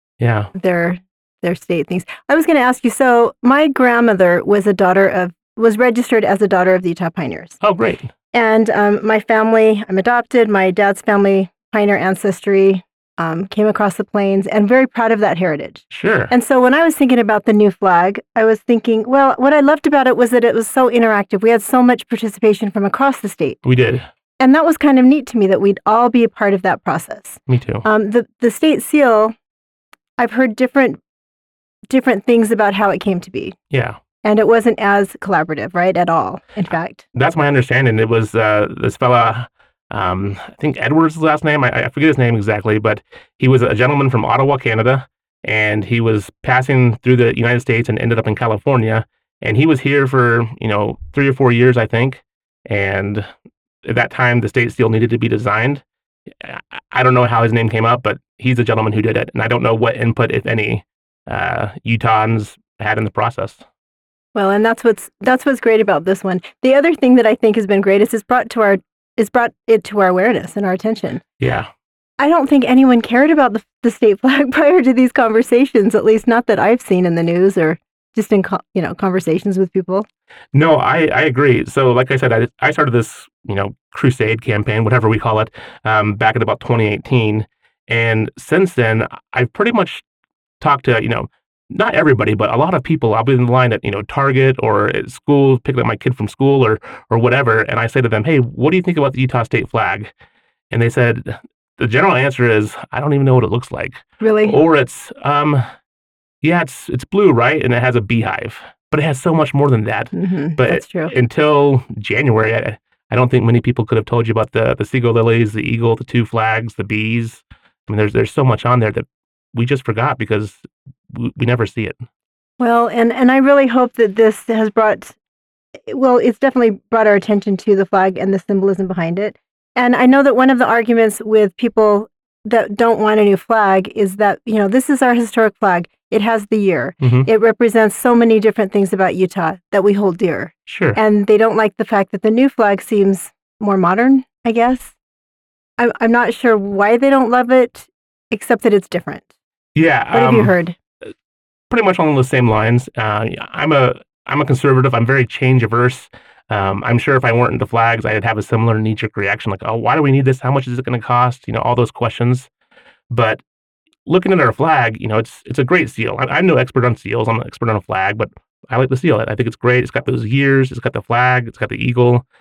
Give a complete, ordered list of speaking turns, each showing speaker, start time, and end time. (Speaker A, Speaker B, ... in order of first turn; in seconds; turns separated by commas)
Speaker A: 0.2-0.5, Speaker B: 0.6-7.6, Speaker A: 7.6-8.1, Speaker B: 8.3-23.6, Speaker A: 15.9-16.3, Speaker A: 23.6-24.1, Speaker B: 24.4-29.4, Speaker A: 27.5-27.9, Speaker B: 30.2-31.0, Speaker B: 31.9-33.6, Speaker A: 33.7-34.0, Speaker B: 34.2-37.0, Speaker A: 37.1-53.3, Speaker A: 53.9-55.8, Speaker A: 56.4-63.6, Speaker B: 64.3-71.2, Speaker A: 71.4-71.7, Speaker B: 72.2-80.1, Speaker A: 80.5-90.0, Speaker A: 90.6-100.1, Speaker A: 100.7-105.6, Speaker B: 104.2-104.6, Speaker A: 106.4-122.0, Speaker B: 110.1-111.1, Speaker B: 122.6-125.2, Speaker B: 125.9-144.9, Speaker A: 137.0-137.3, Speaker A: 140.7-141.0, Speaker B: 145.8-149.3, Speaker A: 149.8-150.6, Speaker B: 150.1-150.8, Speaker A: 151.7-162.5, Speaker A: 163.1-163.4, Speaker A: 164.1-172.3